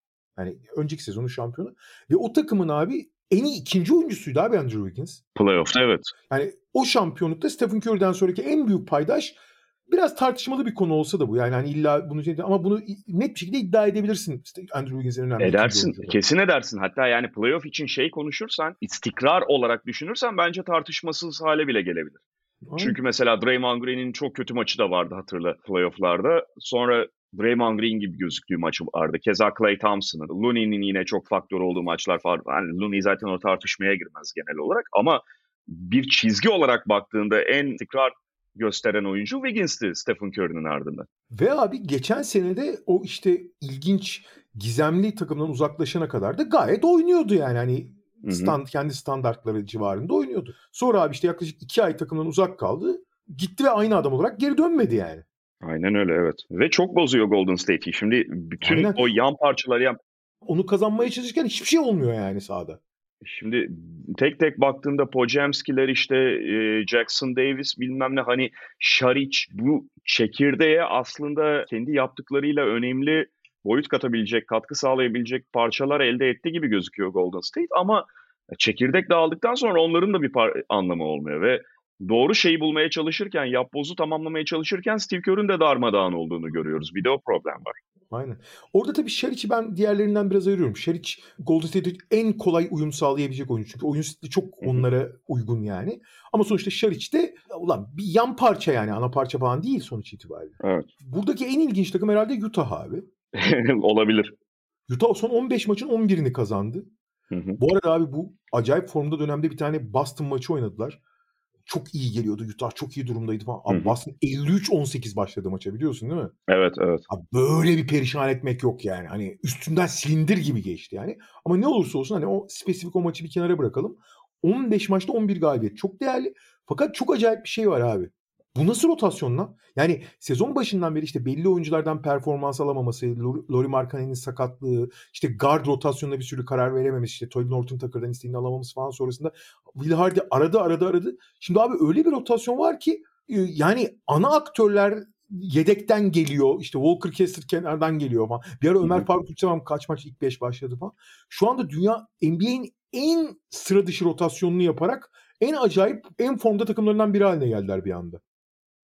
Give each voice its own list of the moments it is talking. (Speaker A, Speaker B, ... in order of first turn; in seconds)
Speaker A: 0.4-5.2, 6.3-9.4, 9.9-16.2, 22.6-23.0, 41.3-55.2, 58.6-59.0, 60.4-62.8, 88.1-103.0, 104.9-106.9, 107.6-111.0, 111.7-116.3, 117.1-158.2
Speaker B: 5.3-6.1, 15.4-22.2, 22.8-41.1, 48.2-48.6, 55.6-60.0, 63.2-87.8, 100.6-100.9, 103.3-104.3, 107.3-107.6, 113.7-113.9, 116.5-117.0